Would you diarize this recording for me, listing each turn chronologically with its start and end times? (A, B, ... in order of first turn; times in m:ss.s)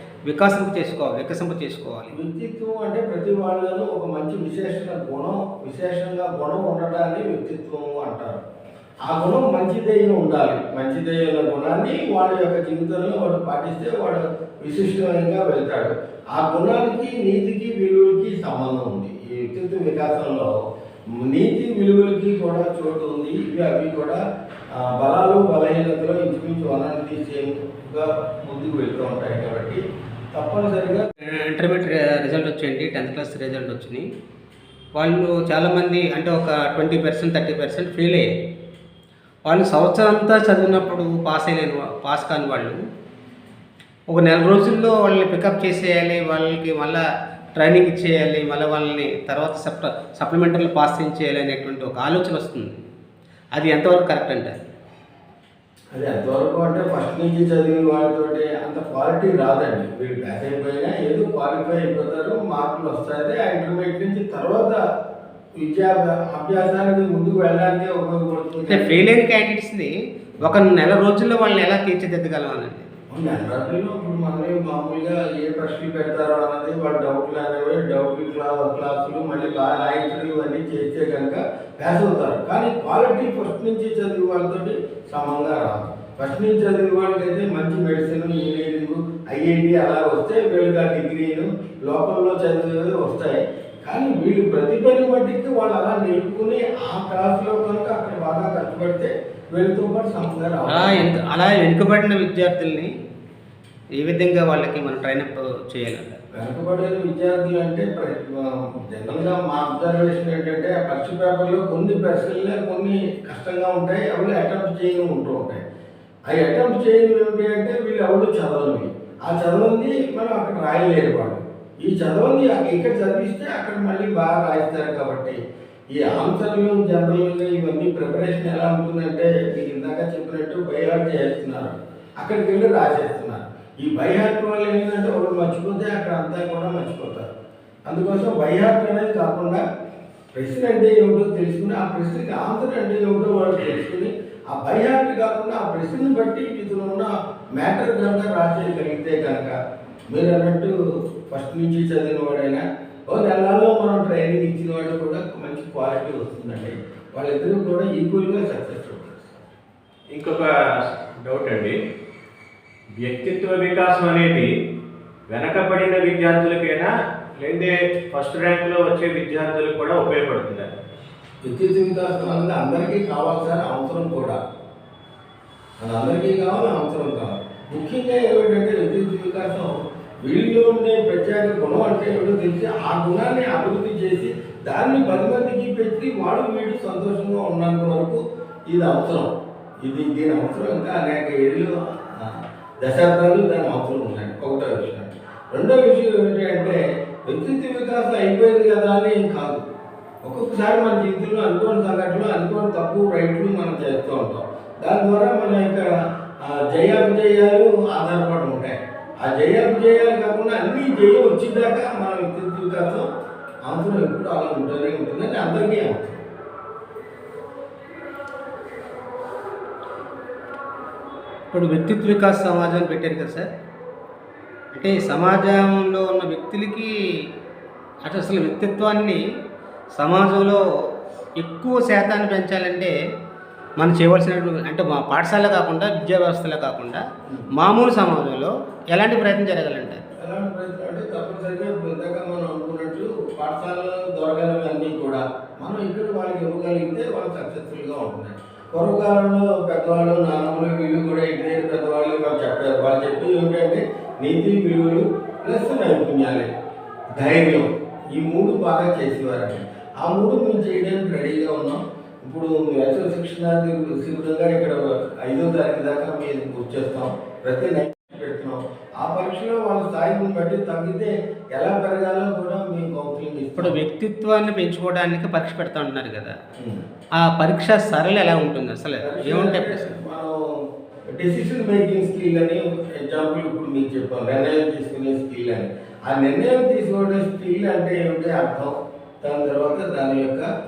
0:00.3-0:02.1 A
0:02.1-0:08.4 B
0:09.0-0:20.5 B
0:21.2-0:24.2 B
0:24.7-0:29.8 B
0:30.3-0:31.1 B
0:31.2-0:34.1 A
0:35.0-0:38.3 A
0:39.5-0:42.8 A
0:44.1-0:47.0 A
0:47.6-0:52.8 A
0:53.6-0:54.6 A
0:55.9-1:04.8 B
1:05.6-1:09.0 B
1:08.7-1:12.9 A
1:13.1-1:41.2 B
1:40.7-1:42.9 A
1:44.0-1:46.2 A
1:46.3-1:55.6 B
1:56.3-2:05.4 B
2:05.9-2:17.3 B
2:17.9-2:19.6 B
2:20.4-2:29.6 B
2:30.1-2:30.8 B
2:31.3-2:39.5 B
2:40.1-2:41.8 C
2:43.0-2:44.5 C
2:45.3-2:50.7 C
2:51.4-2:54.4 B
2:55.8-3:09.3 B
3:09.8-3:19.6 B
3:20.2-3:25.9 B
3:26.4-3:33.1 B
3:33.7-3:36.2 B
3:41.5-3:43.5 A
3:44.7-3:46.9 A
3:48.0-3:49.2 A
3:50.0-3:50.6 A
3:51.4-3:52.9 A
3:53.8-3:57.0 A
3:57.6-4:00.0 A
4:00.2-4:16.5 B
4:17.2-4:33.8 B
4:33.6-4:36.4 A
4:37.2-4:40.0 A
4:39.0-4:40.4 B
4:41.1-4:50.5 B